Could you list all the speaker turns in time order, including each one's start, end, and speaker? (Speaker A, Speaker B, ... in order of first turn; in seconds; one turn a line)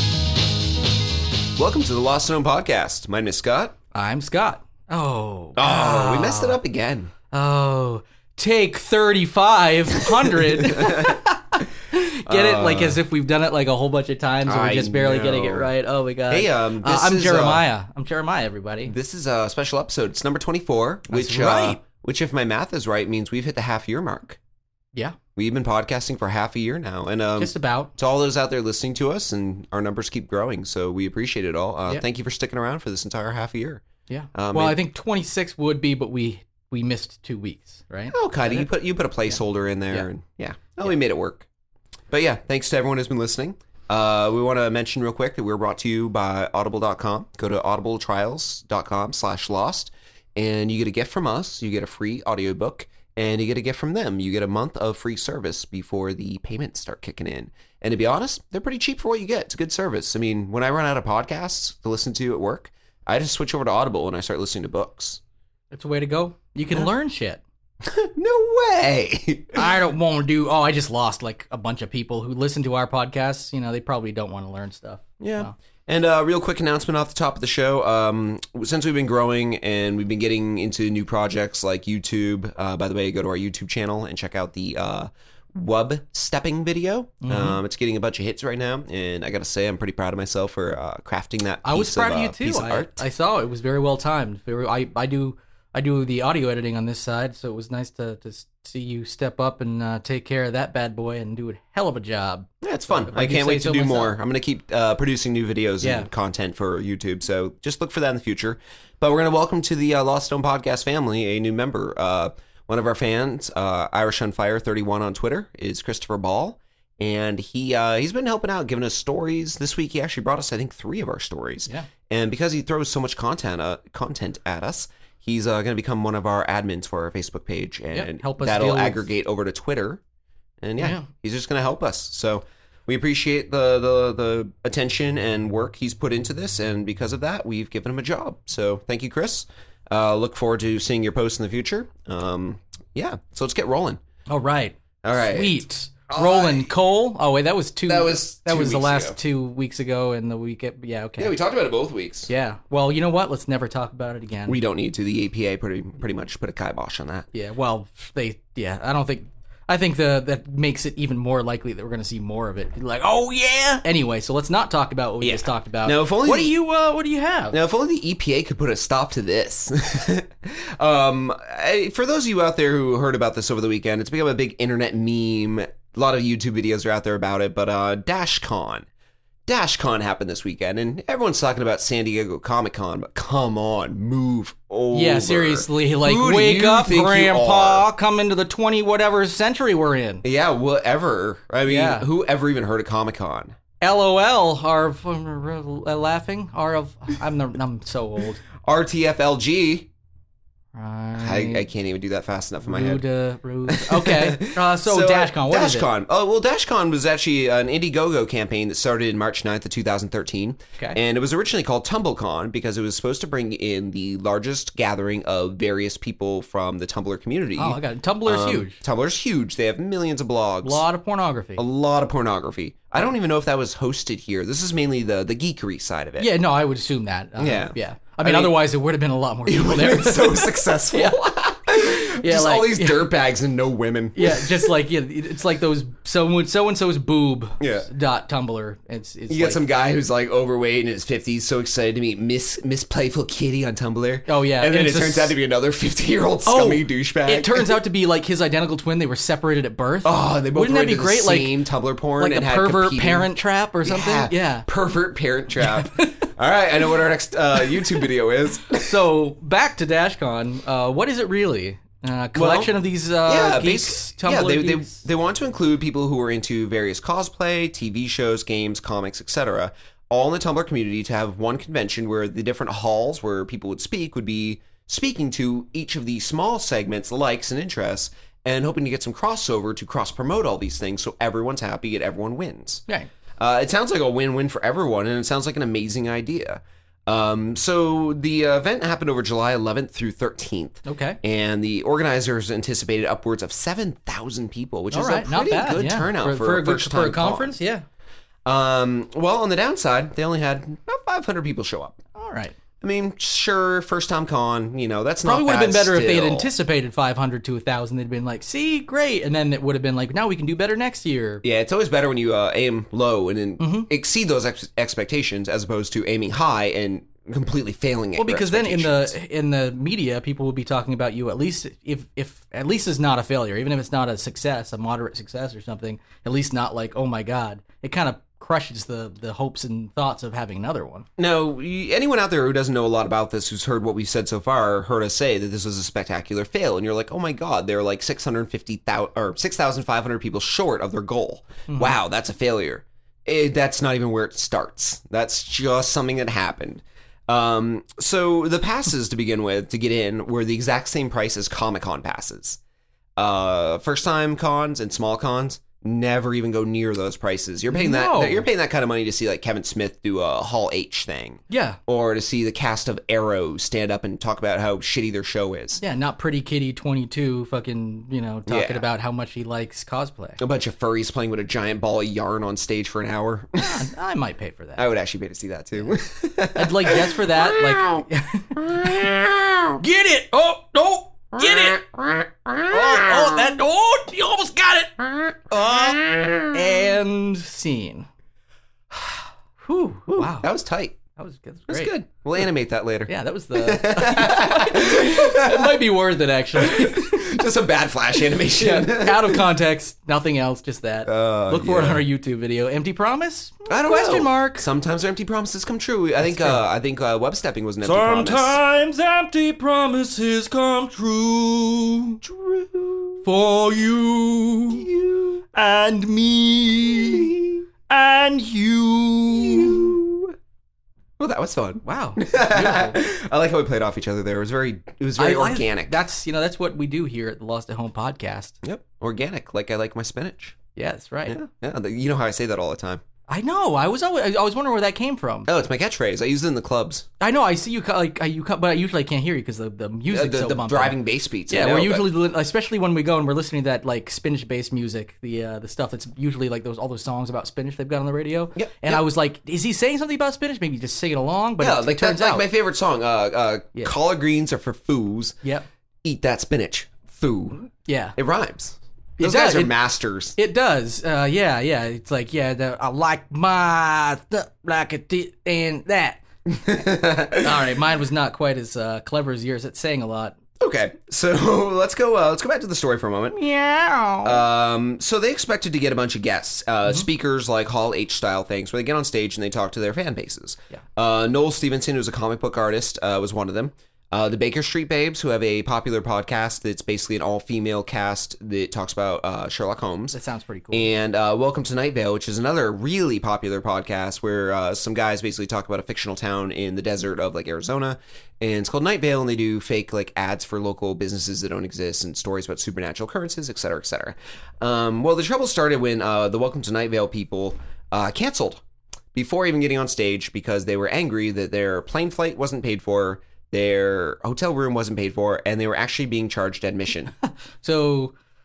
Speaker A: 1.6-3.8
Speaker B: 3.9-6.6
Speaker A: 5.6-7.1
Speaker B: 7.3-18.9
Speaker A: 10.2-11.2
Speaker A: 12.2-13.0
Speaker A: 14.4-15.7
Speaker A: 16.3-17.6
Speaker A: 18.8-24.4
Speaker B: 21.1-21.8
Speaker A: 25.4-34.8
Speaker B: 27.4-27.9
Speaker B: 34.1-38.7
Speaker A: 38.1-41.5
Speaker A: 42.1-65.2
Speaker B: 65.7-67.4
Speaker A: 67.8-69.7
Speaker B: 69.5-75.5
Speaker A: 75.2-93.0
Speaker B: 87.2-87.6
Speaker B: 91.6-104.1
Speaker A: 102.6-130.0
Speaker B: 105.8-106.1
Speaker B: 127.9-129.1
Speaker A: 130.6-144.0
Speaker B: 130.8-131.1
Speaker B: 144.3-151.3
Speaker A: 145.0-146.7
Speaker A: 147.8-149.2
Speaker A: 151.2-152.3
Speaker B: 152.3-154.6
Speaker A: 154.5-157.3
Speaker B: 157.3-167.6
Speaker A: 165.2-166.6
Speaker A: 167.5-178.9
Speaker A: 179.4-187.9
Speaker B: 184.9-190.2
Speaker A: 190.2-193.6
Speaker B: 191.7-192.1
Speaker B: 193.8-198.4
Speaker A: 198.6-199.9
Speaker B: 200.7-201.7
Speaker A: 201.2-203.0
Speaker B: 202.6-205.9
Speaker A: 203.7-220.8
Speaker B: 217.6-218.8
Speaker B: 220.6-221.6
Speaker A: 221.6-226.3
Speaker B: 226.2-231.2
Speaker A: 227.4-228.6
Speaker A: 229.4-234.7
Speaker B: 231.8-233.1
Speaker B: 234.1-239.6
Speaker A: 237.6-237.9
Speaker A: 239.3-247.8
Speaker B: 244.3-245.3
Speaker B: 246.4-251.6
Speaker A: 250.0-259.0
Speaker B: 252.2-254.7
Speaker B: 255.6-256.3
Speaker B: 257.6-258.0
Speaker B: 258.7-265.0
Speaker A: 262.4-282.8
Speaker A: 283.4-297.6
Speaker B: 290.8-291.2
Speaker B: 294.9-297.8
Speaker A: 298.4-302.0
Speaker B: 302.1-302.5
Speaker A: 302.8-306.5
Speaker B: 305.2-311.4
Speaker A: 311.4-319.1
Speaker B: 313.6-313.9
Speaker B: 318.1-331.1
Speaker A: 331.2-352.6
Speaker B: 341.7-342.0
Speaker A: 353.1-365.8
Speaker B: 357.7-358.5
Speaker B: 361.5-361.8
Speaker B: 365.8-370.4
Speaker A: 368.5-368.9
Speaker A: 370.4-373.8
Speaker B: 373.6-374.8
Speaker A: 374.8-379.8
Speaker B: 376.5-379.1
Speaker B: 379.8-381.8
Speaker A: 381.3-383.5
Speaker B: 382.7-388.1
Speaker A: 385.5-386.6
Speaker B: 388.9-390.5
Speaker A: 390.1-391.0
Speaker B: 391.2-391.9
Speaker A: 391.7-395.8
Speaker B: 393.1-397.4
Speaker A: 396.5-399.5
Speaker B: 398.6-404.6
Speaker A: 401.0-402.0
Speaker A: 403.7-408.6
Speaker B: 406.2-406.6
Speaker B: 407.8-412.2
Speaker A: 412.2-413.2
Speaker B: 413.2-414.8
Speaker A: 414.7-415.4
Speaker B: 415.5-417.3
Speaker A: 416.9-417.6
Speaker B: 417.9-419.9
Speaker A: 419.3-420.3
Speaker A: 421.2-426.0
Speaker B: 421.8-423.0
Speaker B: 425.2-428.5
Speaker A: 428.6-430.6
Speaker B: 430.8-431.4
Speaker A: 431.3-433.0
Speaker B: 433.3-435.5
Speaker A: 435.4-437.1
Speaker B: 437.2-441.0
Speaker A: 440.1-442.1
Speaker B: 441.5-452.4
Speaker A: 448.5-449.0
Speaker A: 451.6-455.4
Speaker A: 456.0-460.4
Speaker B: 457.9-458.1
Speaker B: 459.2-459.7
Speaker B: 460.4-466.2
Speaker A: 466.5-467.6
Speaker B: 467.4-470.4
Speaker A: 470.6-473.4
Speaker B: 473.3-474.4
Speaker A: 474.2-490.2
Speaker B: 490.1-490.9
Speaker A: 490.7-508.6
Speaker A: 509.1-517.1
Speaker B: 517.2-518.1